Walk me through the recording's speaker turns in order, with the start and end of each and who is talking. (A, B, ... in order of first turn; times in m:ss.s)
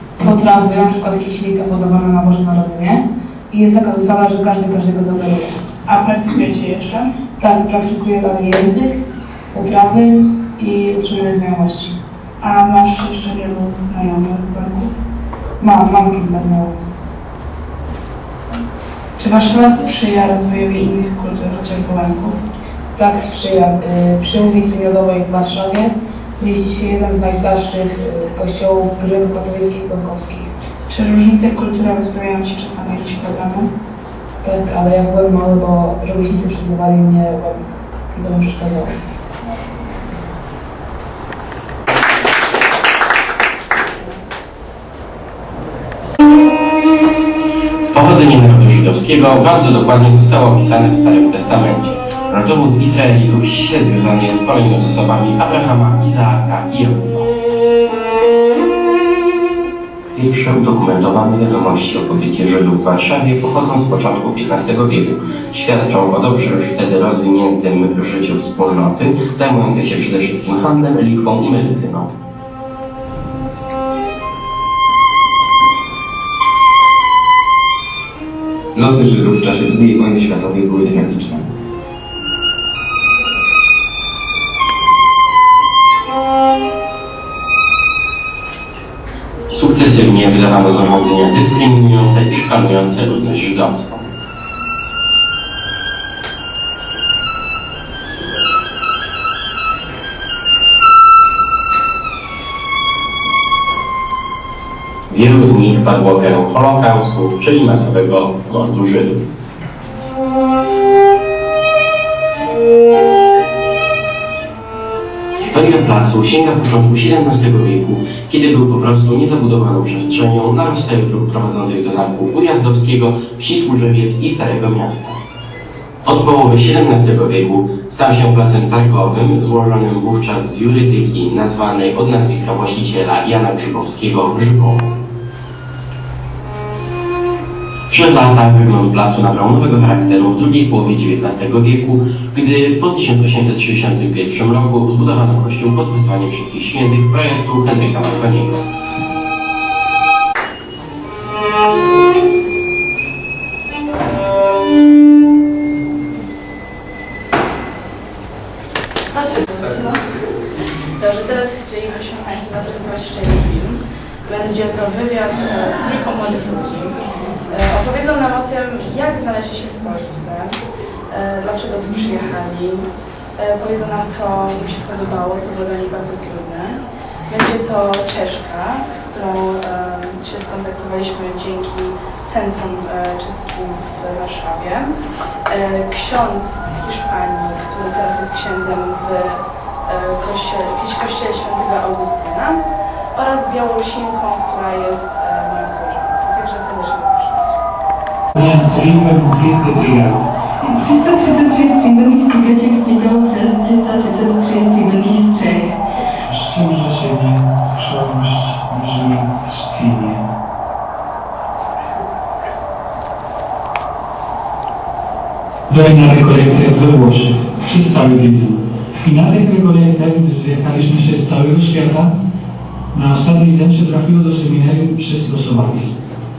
0:00.2-0:05.6 A
0:05.8-0:07.0 B
0:07.4-0:09.0 A
0:09.5-0:11.9 A
0:12.4-0:14.9 B
0:15.6-0:16.8 A
0:19.2-0:22.4 B
0:23.0-0:30.5 A
0:30.9-0:33.7 B
0:34.4-0:38.9 A
0:47.9-0:57.3 C
1:00.1-1:12.1 C
1:18.7-1:21.5 D
1:29.5-1:34.1 C
1:45.1-1:49.2 C
1:55.4-2:05.2 C
2:06.0-2:15.0 C
2:17.9-2:28.6 C
2:39.1-2:40.2 E
2:40.8-3:04.9 E
3:05.5-3:12.6 E
3:13.1-3:17.4 E
3:18.3-3:20.2 F
3:20.6-3:25.8 G
3:26.3-3:30.2 F
3:35.7-3:42.1 F
3:42.9-3:45.9 F